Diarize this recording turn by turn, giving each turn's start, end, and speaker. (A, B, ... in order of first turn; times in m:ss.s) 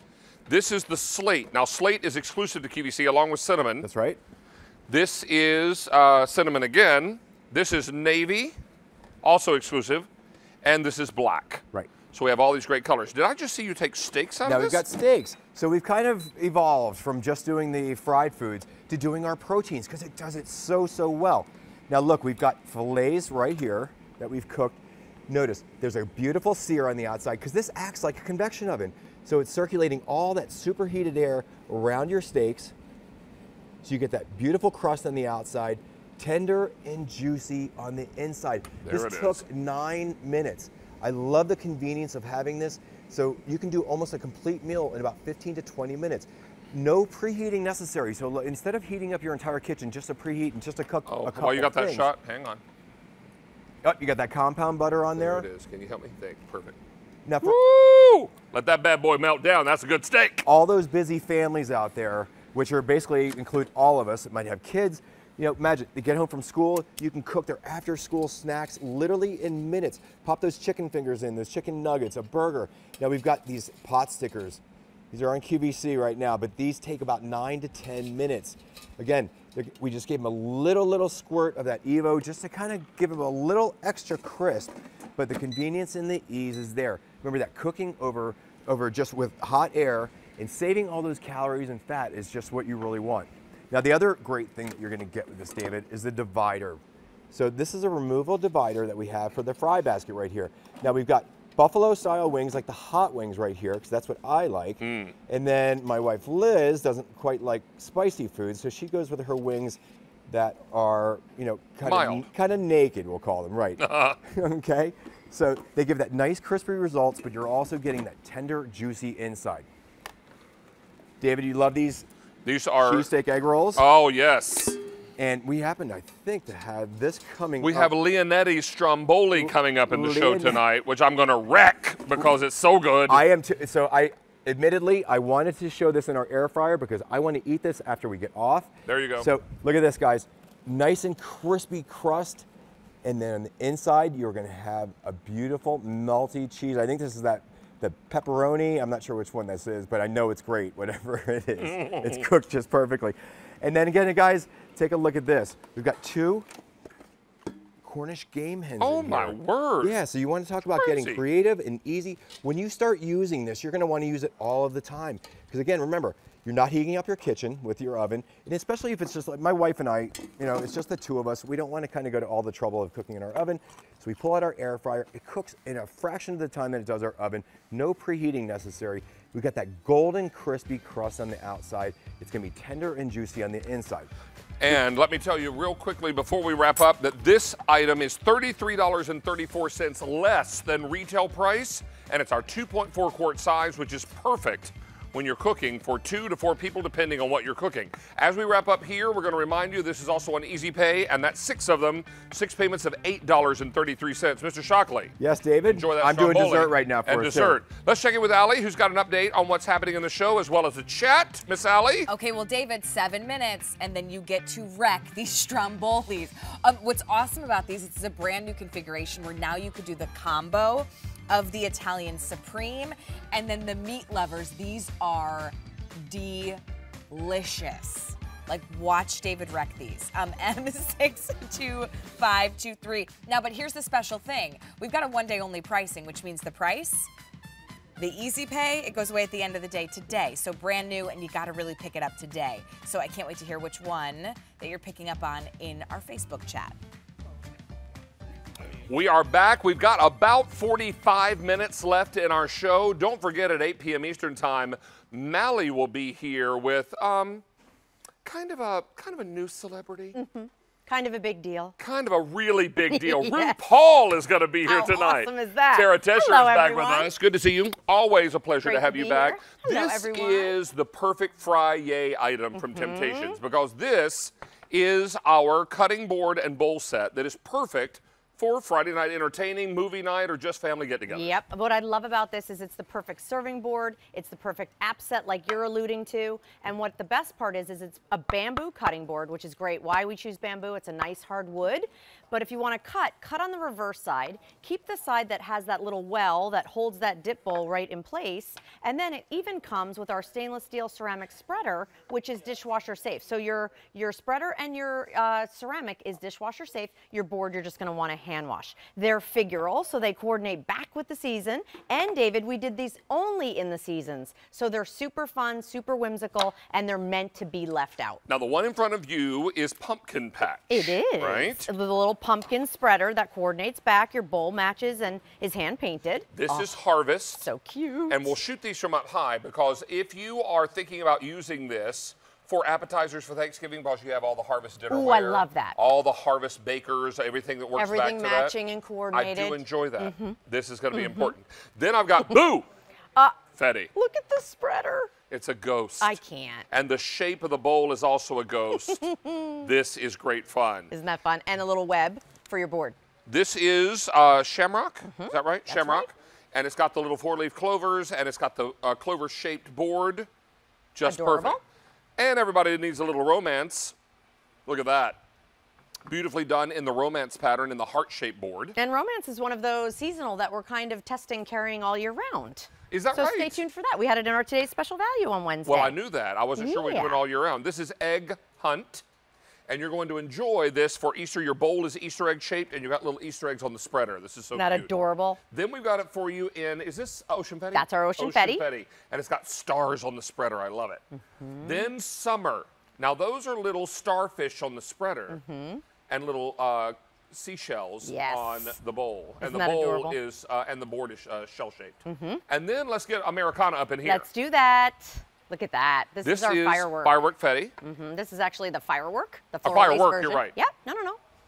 0:00.5-0:03.9 A
0:03.8-0:04.2 B
0:04.9-0:08.6 A
0:09.2-0:10.1 A
0:10.6-0:14.8 A
0:14.4-0:32.7 B
0:33.8-0:52.1 B
0:38.8-0:39.4 A
0:51.0-0:52.6 A
0:53.8-0:55.5 B
0:55.2-0:56.8 A
0:57.2-0:57.6 B
0:57.4-1:00.5 A
1:00.4-1:59.6 B
1:44.8-1:45.1 A
1:51.8-1:52.3 A
1:53.8-1:54.2 A
2:01.2-2:02.0 B
2:02.4-2:03.1 A
2:02.8-2:03.8 B
2:03.8-2:04.8 A
2:05.2-2:07.9 B
2:07.6-2:13.2 A
2:09.4-2:10.6 B
2:13.1-2:22.4 B
2:18.9-2:19.3 A
2:23.0-2:36.5 B
2:31.6-2:32.3 A
2:37.8-3:04.1 B
2:38.8-2:40.0 A
2:40.8-2:41.2 A
3:04.6-3:25.1 A
3:25.2-3:27.6 B
3:25.7-3:32.1 A
3:32.1-3:57.1 C
3:58.0-4:06.8 C
4:08.9-4:17.4 A
4:18.2-4:20.2 A
4:20.1-4:21.7 D
4:21.8-4:41.3 A
4:22.9-4:23.6 D
4:24.6-4:27.1 D
4:28.6-4:30.6 D
4:32.5-4:33.4 D
4:41.1-5:18.2 D
5:18.3-5:21.7 A
5:20.7-5:26.7 D
5:26.3-5:27.5 A
5:27.4-5:28.4 D
5:28.1-5:38.6 A
5:34.9-5:35.8 D
5:37.7-5:40.4 D
5:39.1-5:42.7 A
5:40.9-5:41.3 D
5:43.6-5:43.9 A
5:43.9-5:45.1 D
5:45.3-5:46.2 A
5:46.0-5:46.6 D
5:46.7-5:49.0 A
5:48.9-5:49.6 D
5:49.6-5:50.9 A
5:50.9-5:53.0 D
5:53.3-6:00.3 A
5:55.0-5:56.1 D
6:00.9-6:01.6 A
6:01.0-6:01.6 D
6:02.2-6:03.9 A
6:04.6-6:05.2 A
6:06.1-6:08.8 A
6:08.8-6:16.0 D
6:12.9-6:13.6 A
6:15.6-6:19.0 A
6:16.6-6:17.2 D
6:19.7-6:24.9 A
6:24.5-6:25.4 D
6:25.5-6:31.0 A
6:27.7-6:28.6 D
6:31.1-6:31.9 D
6:31.6-6:35.4 A
6:35.3-6:35.8 D
6:36.1-6:44.3 A
6:38.0-6:38.8 D
6:39.4-6:40.2 D
6:42.0-6:42.4 D
6:44.0-6:47.2 D
6:46.2-6:47.7 A
6:47.8-6:51.2 D
6:49.6-6:50.6 A